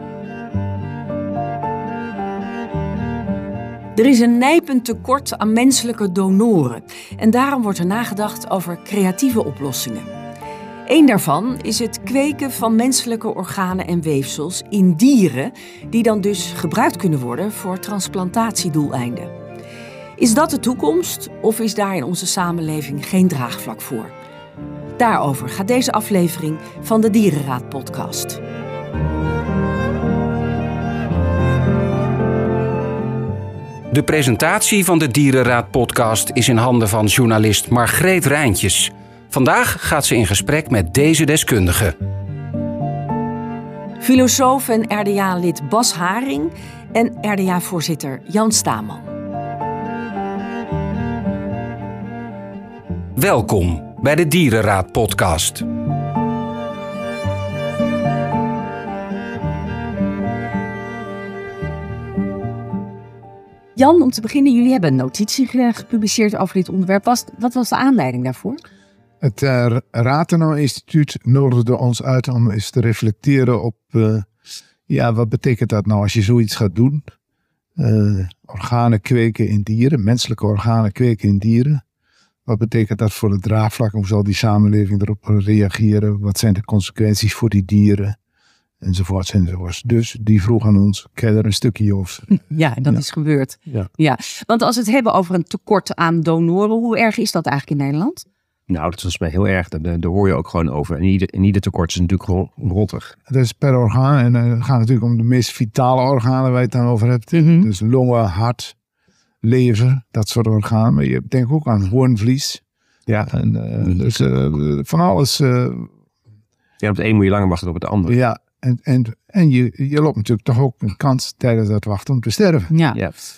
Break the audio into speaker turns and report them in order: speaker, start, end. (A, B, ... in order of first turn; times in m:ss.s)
0:04.0-0:10.1 A
0:10.9-0:19.3 A
0:20.2-0:24.1 A
0:25.0-0:28.4 A
0:33.9-0:41.9 B
0:44.0-0:49.1 A
0:53.2-0:55.6 B
1:03.8-1:08.6 A
1:09.2-1:14.3 C
1:14.9-1:17.0 C
1:17.8-1:21.8 C
1:22.5-1:28.2 C
1:28.8-1:33.0 C
1:32.3-1:38.2 A
1:38.7-1:43.1 D
1:43.3-1:48.7 C
1:47.3-1:47.7 A
1:49.4-1:52.6 C
1:53.1-1:54.2 D
1:53.3-1:55.9 C
1:56.8-1:58.2 D
1:58.1-2:02.7 C
2:02.7-2:03.0 A